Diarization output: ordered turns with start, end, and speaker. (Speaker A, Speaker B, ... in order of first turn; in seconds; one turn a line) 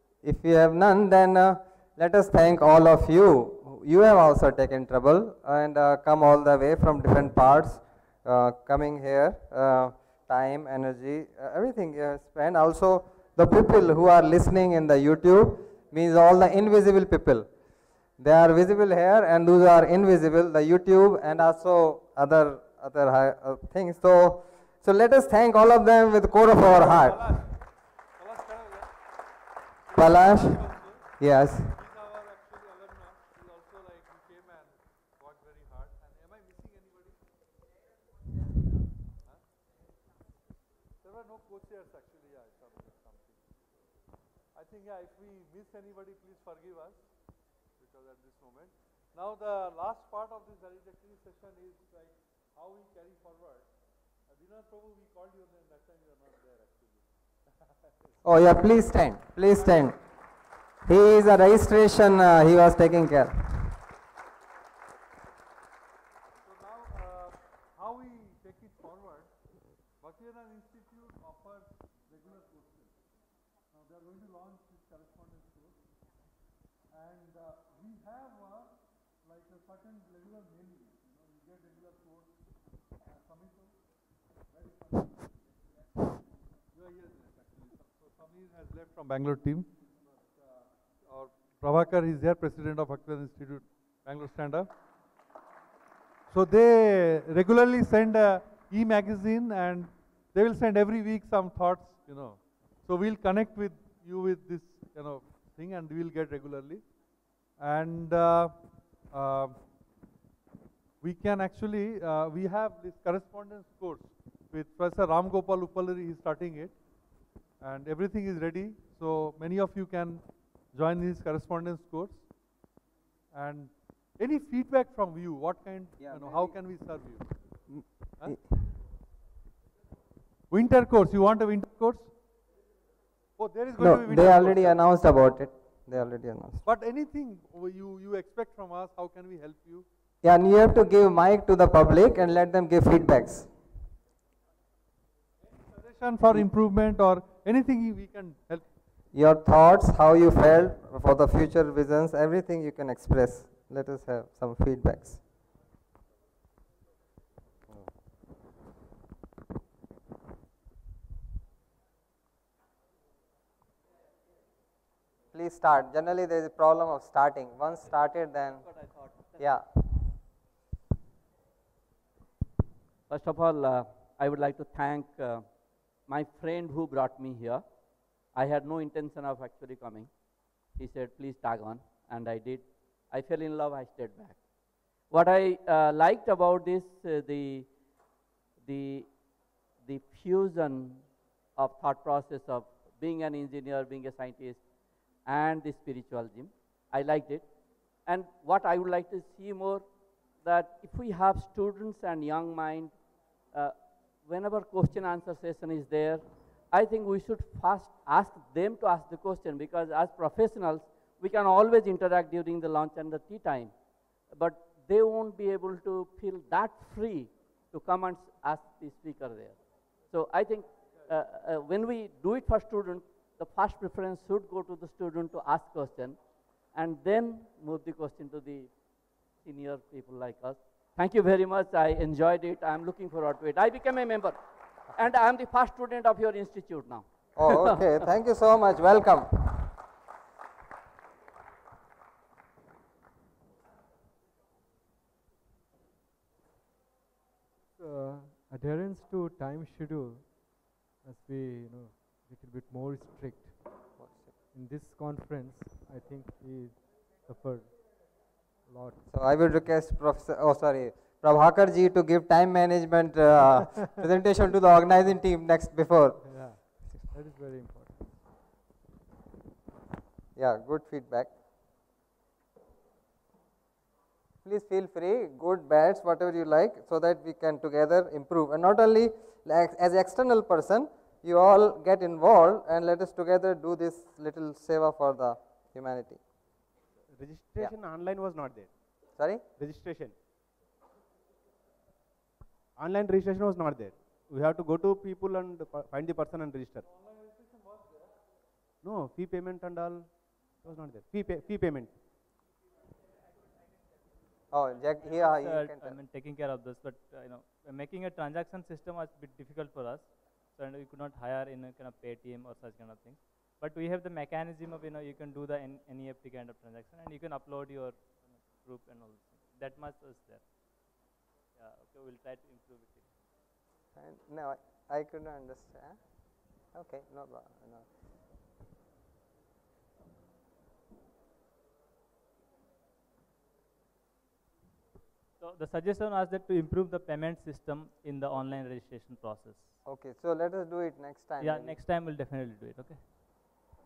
Speaker A: 0.2-17.5
Speaker A: 18.2-27.3
Speaker B: 26.7-27.5
Speaker B: 28.2-28.9
Speaker B: 29.9-31.0
Speaker A: 29.9-31.8
Speaker B: 31.8-36.9
Speaker B: 41.0-43.4
Speaker B: 44.5-47.0
Speaker B: 47.8-53.7
Speaker B: 54.3-57.0
Speaker A: 58.2-60.0
Speaker A: 60.9-63.7
Speaker B: 66.5-69.3
Speaker B: 70.0-72.9
Speaker B: 73.9-75.7
Speaker B: 76.9-78.7
Speaker B: 79.3-80.9
Speaker B: 81.4-82.2
Speaker B: 83.3-83.6
Speaker B: 86.7-89.7
Speaker B: 91.0-94.7
Speaker B: 96.3-106.9
Speaker B: 107.6-109.6
Speaker B: 111.0-116.8
Speaker B: 117.6-122.3
Speaker B: 123.3-127.3
Speaker A: 126.0-126.5
Speaker A: 127.7-128.5
Speaker B: 130.5-132.1
Speaker B: 133.4-134.8
Speaker A: 133.8-136.6
Speaker B: 136.6-139.9
Speaker A: 140.2-143.5
Speaker B: 145.5-148.7
Speaker A: 149.1-155.2
Speaker A: 165.3-169.7
Speaker C: 168.7-169.2
Speaker D: 173.1-188.0
Speaker D: 188.6-228.8
Speaker D: 229.3-237.8
Speaker A: 237.4-239.7
Speaker E: 247.8-250.3
Speaker E: 251.0-257.7
Speaker A: 254.0-254.3
Speaker E: 258.7-258.9
Speaker A: 259.1-266.3
Speaker E: 266.2-268.2
Speaker A: 270.4-271.3
Speaker A: 274.4-286.2
Speaker F: 287.1-290.2
Speaker A: 289.2-289.4
Speaker F: 292.8-296.9
Speaker F: 298.8-302.0
Speaker A: 304.5-306.0
Speaker C: 305.2-320.5
Speaker C: 321.6-323.1
Speaker A: 324.0-327.9
Speaker C: 335.4-339.8
Speaker A: 339.9-341.8
Speaker C: 341.4-343.1